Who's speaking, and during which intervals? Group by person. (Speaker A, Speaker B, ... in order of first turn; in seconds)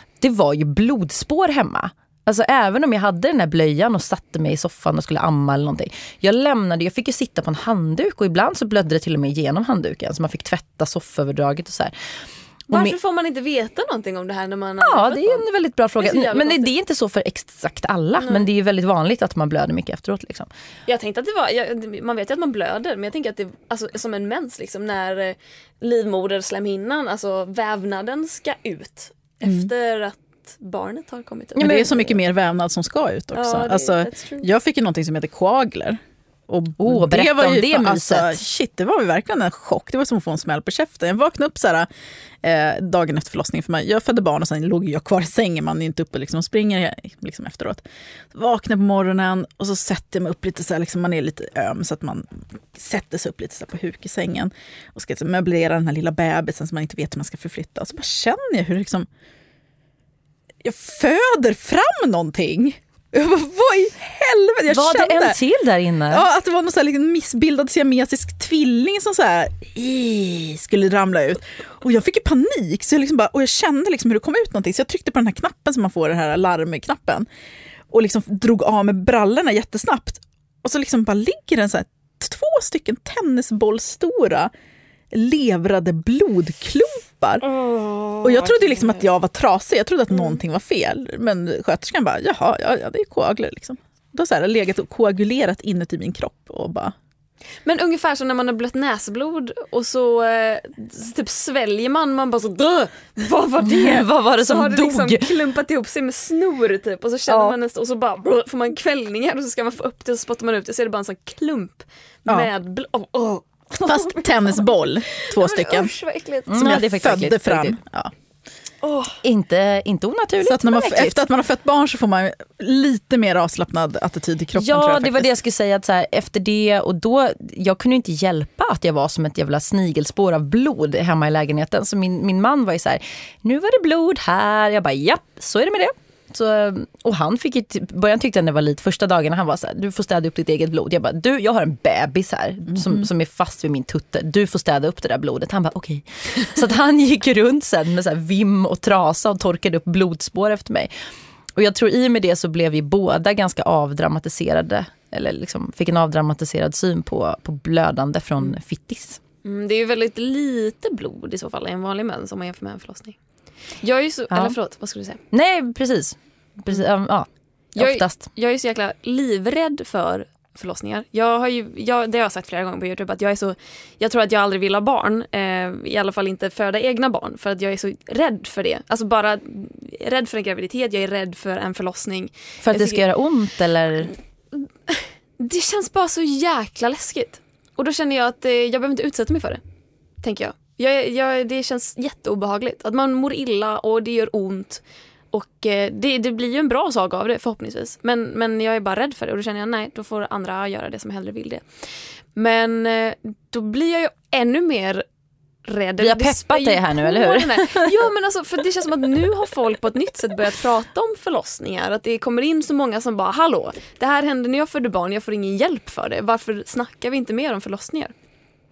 Speaker A: 0.2-11.9, 12.7-13.0, 14.8-20.5, 31.6-32.2, 36.8-38.4, 64.7-66.3, 103.7-105.3, 116.5-117.8, 119.2-121.2, 124.5-150.9, 151.6-159.2, 164.3-164.6, 165.3-168.2, 182.6-184.1, 206.0-207.8
Speaker B: 12.7-15.5, 16.0-16.7, 18.2-18.5, 20.9-31.9, 33.3-34.5, 87.5-89.0, 90.1-90.4, 97.7-116.7, 118.8-119.2, 159.4-163.2, 163.8-165.2, 167.8-183.1, 184.6-189.6, 190.2-201.7, 202.3-205.1, 205.7-218.1
Speaker C: 29.4-29.7, 31.6-41.9, 42.4-47.8, 48.3-59.1, 60.6-65.4, 66.1-77.3, 77.9-84.5, 85.1-87.5, 88.2-96.9, 113.8-115.9, 116.5-118.1, 120.4-125.3